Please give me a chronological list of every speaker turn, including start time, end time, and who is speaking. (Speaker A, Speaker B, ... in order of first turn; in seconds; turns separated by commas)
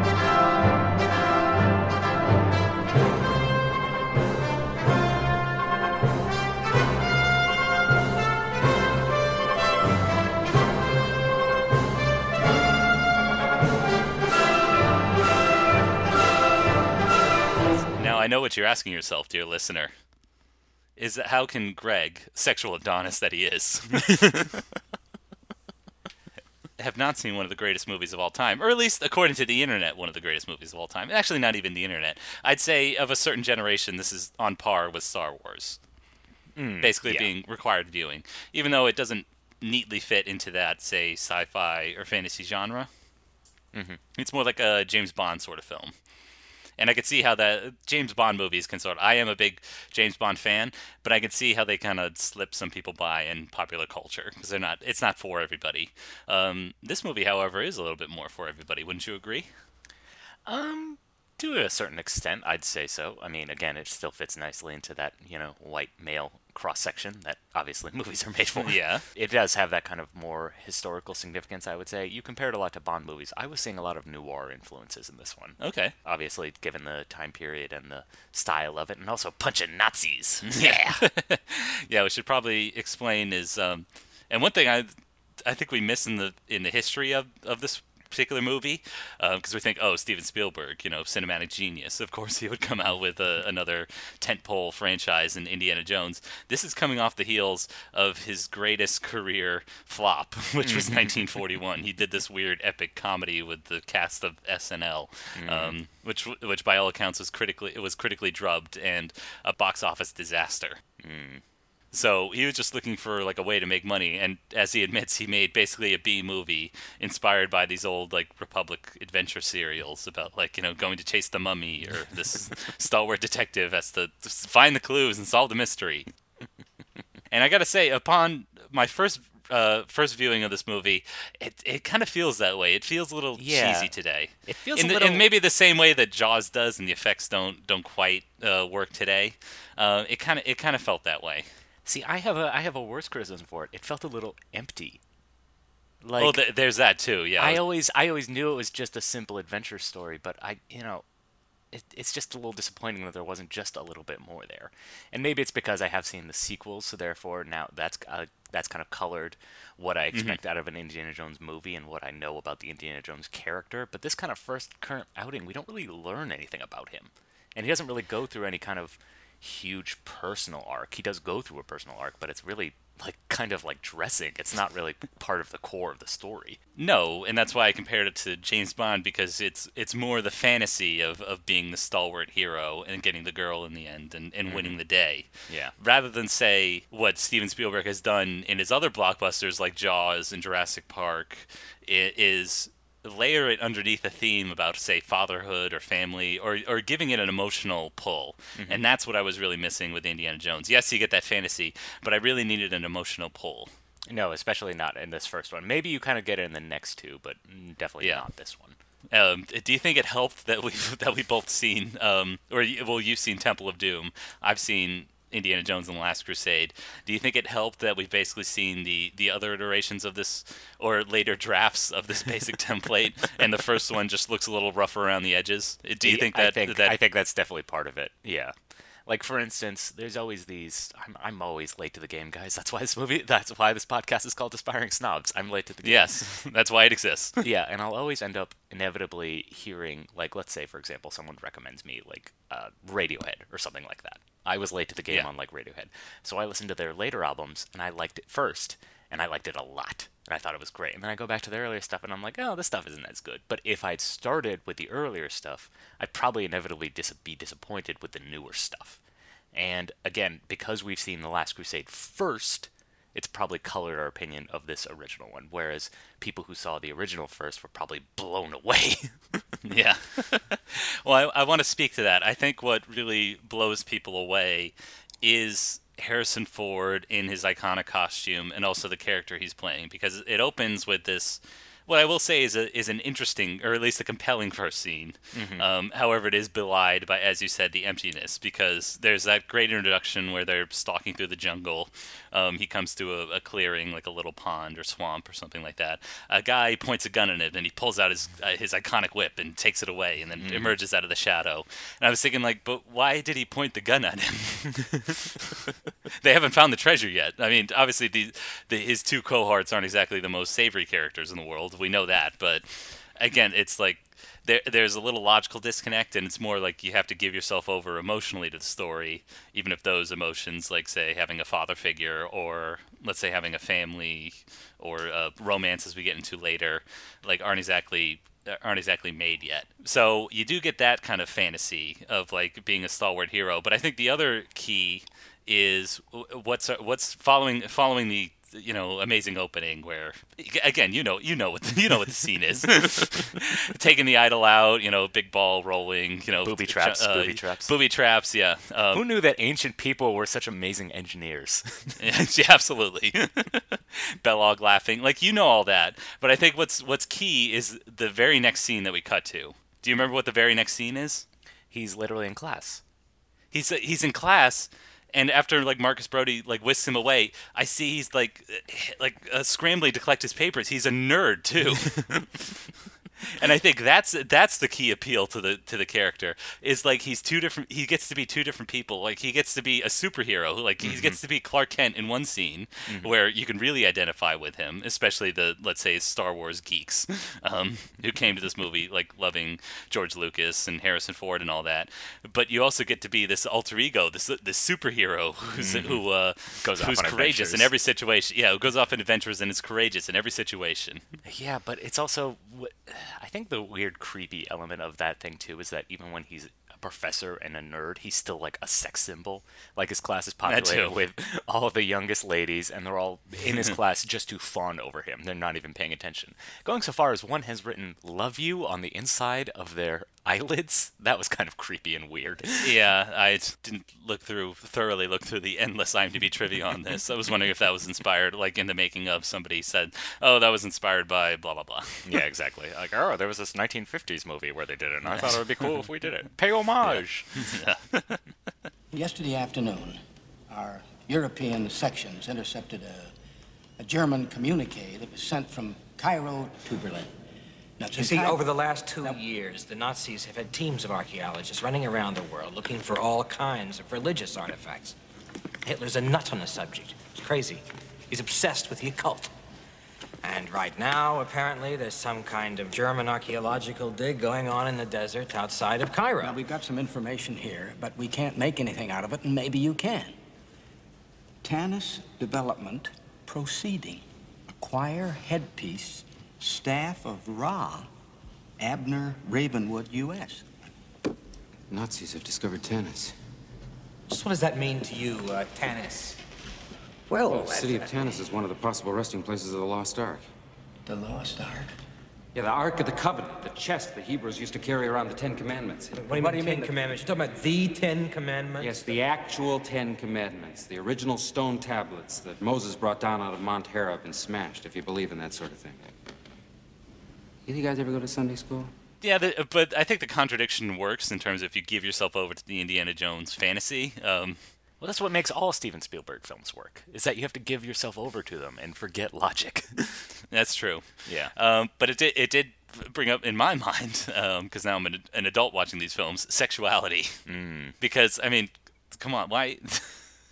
Speaker A: 17.9-19.9, Speaker A: 20.9-24.5, Speaker A: 26.8-35.8, Speaker B: 36.5-37.3, Speaker A: 36.8-42.9, Speaker B: 43.7-44.0, Speaker A: 44.1-45.9, Speaker A: 46.8-59.5, Speaker B: 60.5-81.0, Speaker A: 68.6-69.0, Speaker A: 75.6-75.9, Speaker A: 80.5-84.9, Speaker A: 85.4-110.8, Speaker B: 100.6-101.4, Speaker B: 105.3-105.8, Speaker B: 111.0-111.4, Speaker A: 111.9-126.1, Speaker A: 127.3-141.5, Speaker B: 133.4-135.3, Speaker B: 141.8-145.0, Speaker B: 146.0-146.4, Speaker A: 146.2-147.6, Speaker B: 147.4-151.0, Speaker B: 151.7-176.6, Speaker A: 160.1-160.4, Speaker A: 176.8-203.7, Speaker B: 184.4-184.8, Speaker B: 185.5-185.7, Speaker B: 198.6-198.8, Speaker B: 204.1-208.8, Speaker A: 208.0-208.2, Speaker A: 209.1-226.9, Speaker B: 226.0-236.3, Speaker A: 235.8-237.4, Speaker B: 237.4-259.0, Speaker B: 259.5-269.6, Speaker A: 269.6-305.4, Speaker B: 285.3-285.6, Speaker B: 300.4-300.7, Speaker A: 306.2-349.1, Speaker B: 346.4-347.7, Speaker B: 348.9-352.0, Speaker A: 352.0-361.2, Speaker B: 361.7-362.8, Speaker A: 363.5-372.2, Speaker A: 373.2-401.0, Speaker B: 380.8-381.2, Speaker B: 382.9-383.1, Speaker B: 395.5-397.7, Speaker B: 401.2-422.8, Speaker A: 410.4-411.0, Speaker A: 422.6-432.2, Speaker B: 432.0-437.6, Speaker A: 435.1-435.8, Speaker A: 436.8-438.2, Speaker C: 438.9-443.1, Speaker C: 443.8-447.1, Speaker C: 447.8-448.4, Speaker D: 447.9-455.0, Speaker D: 455.6-459.3, Speaker D: 460.2-466.4, Speaker C: 466.2-470.1, Speaker C: 471.4-474.0, Speaker C: 474.6-477.9, Speaker C: 478.6-480.4, Speaker E: 481.7-483.1, Speaker D: 484.1-486.2, Speaker D: 487.2-488.2, Speaker E: 487.2-490.2, Speaker C: 490.9-491.7, Speaker E: 492.3-496.7, Speaker D: 496.0-498.9, Speaker E: 498.6-505.9, Speaker E: 507.4-508.7, Speaker A: 509.0-514.4, Speaker B: 514.8-520.1, Speaker A: 520.3-527.2, Speaker B: 521.0-521.3, Speaker B: 527.2-527.8, Speaker A: 527.8-530.1